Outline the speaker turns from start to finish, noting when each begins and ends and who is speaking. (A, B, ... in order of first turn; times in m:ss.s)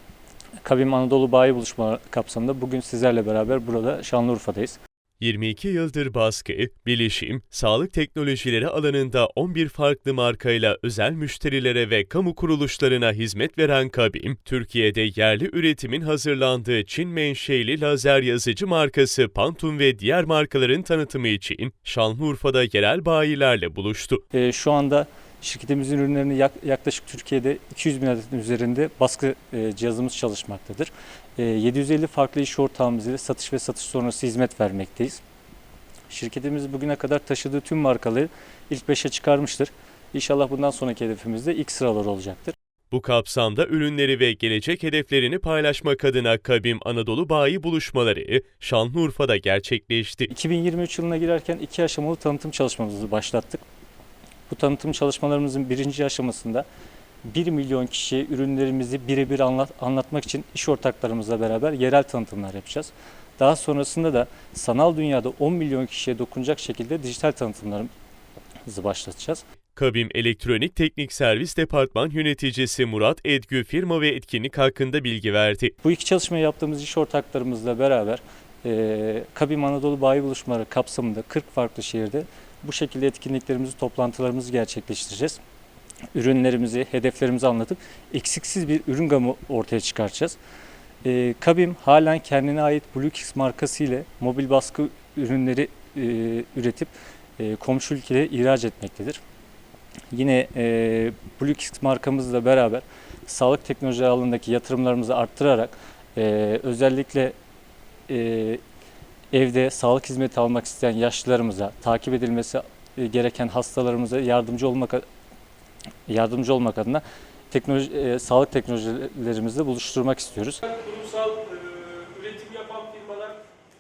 0:00.6-0:04.8 A
0:05.2-0:24.2 B
0:24.3-0:35.2 A
0:36.1-0:42.5 A
0:42.9-0:50.3 B
0:50.3-0:53.6 A
0:54.5-0:56.6 A
0:57.3-1:07.9 A
1:08.7-1:09.4 A
1:09.8-1:15.7 B
1:15.8-1:25.4 A
1:26.1-1:30.4 A
1:31.0-1:39.2 A
1:40.1-1:47.3 A
1:48.1-1:48.6 A
1:49.3-1:55.0 A
1:56.1-2:00.8 A
2:00.8-2:03.4 C